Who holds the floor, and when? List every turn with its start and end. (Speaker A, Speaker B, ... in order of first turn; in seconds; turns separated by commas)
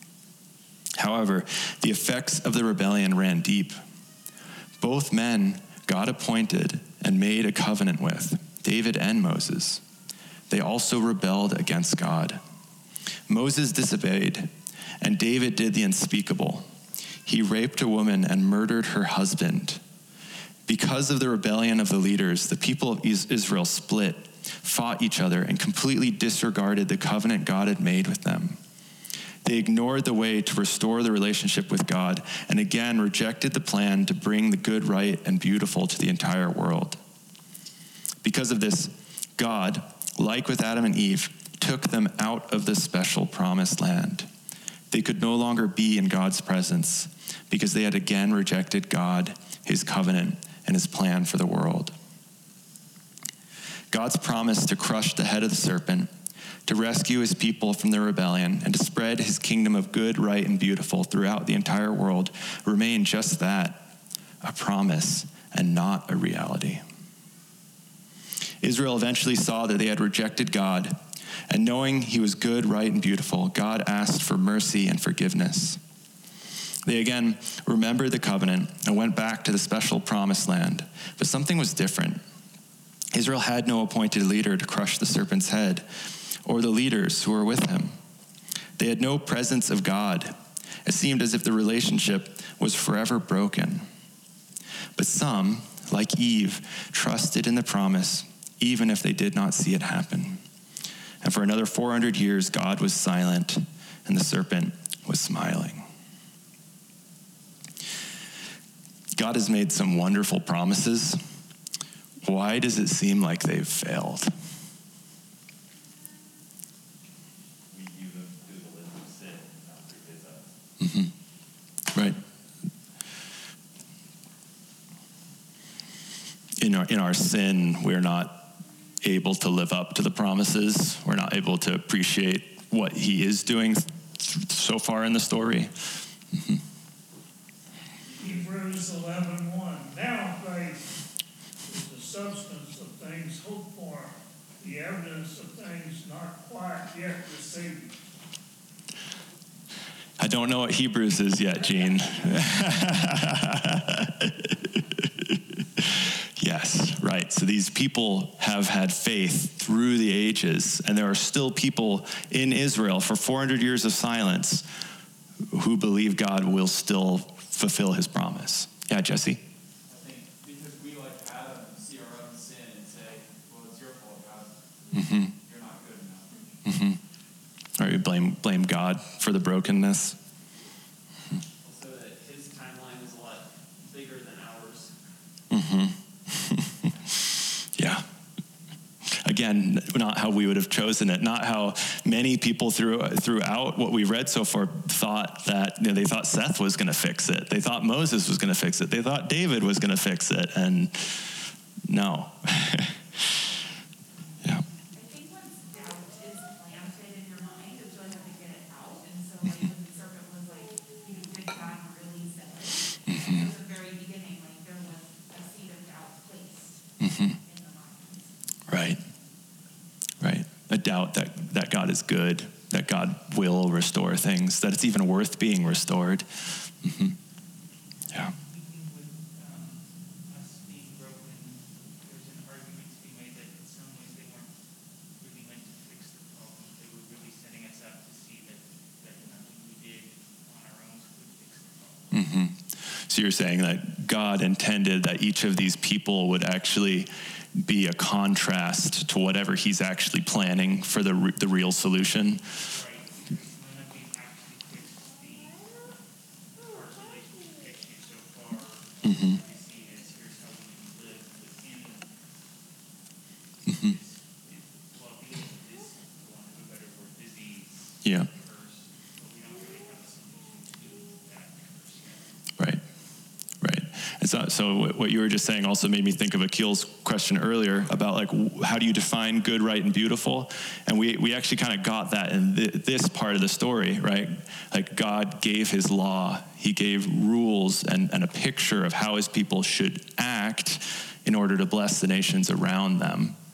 Speaker A: 1.0-3.8, Speaker A: 4.8-9.8, Speaker A: 10.5-12.4, Speaker A: 13.3-16.7, Speaker A: 17.3-19.8, Speaker A: 20.7-28.6, Speaker A: 29.4-37.0, Speaker A: 38.2-44.3, Speaker A: 44.9-52.0, Speaker A: 53.9-56.1, Speaker A: 56.7-63.9, Speaker A: 64.4-66.8, Speaker A: 68.6-75.8, Speaker A: 76.8-82.2, Speaker A: 83.1-88.0, Speaker A: 88.8-93.9, Speaker A: 95.0-100.4, Speaker A: 101.2-105.9, Speaker A: 109.1-111.2, Speaker A: 112.2-114.3, Speaker B: 117.7-120.5, Speaker A: 120.8-121.1, Speaker A: 121.9-122.2, Speaker A: 126.6-128.5, Speaker A: 129.0-135.7, Speaker A: 136.3-136.6, Speaker C: 138.1-139.0, Speaker D: 138.2-141.0, Speaker D: 141.7-147.9, Speaker A: 150.2-164.7, Speaker A: 165.5-169.4, Speaker C: 169.8-176.5, Speaker A: 174.9-175.3, Speaker A: 176.7-177.0, Speaker A: 177.8-180.2, Speaker C: 181.6-185.0, Speaker A: 185.5-186.9, Speaker A: 187.6-188.1, Speaker A: 189.1-201.3, Speaker A: 201.9-203.0, Speaker E: 204.9-218.3, Speaker A: 213.1-213.4, Speaker A: 217.0-217.4, Speaker A: 218.7-219.0, Speaker A: 220.2-227.2, Speaker F: 228.3-234.5, Speaker F: 235.2-242.2, Speaker A: 242.1-252.4, Speaker F: 252.6-255.9, Speaker F: 256.7-262.2, Speaker A: 259.0-259.4, Speaker F: 263.7-272.3, Speaker A: 263.7-263.9, Speaker A: 268.0-268.3, Speaker A: 272.6-272.8, Speaker A: 273.6-293.4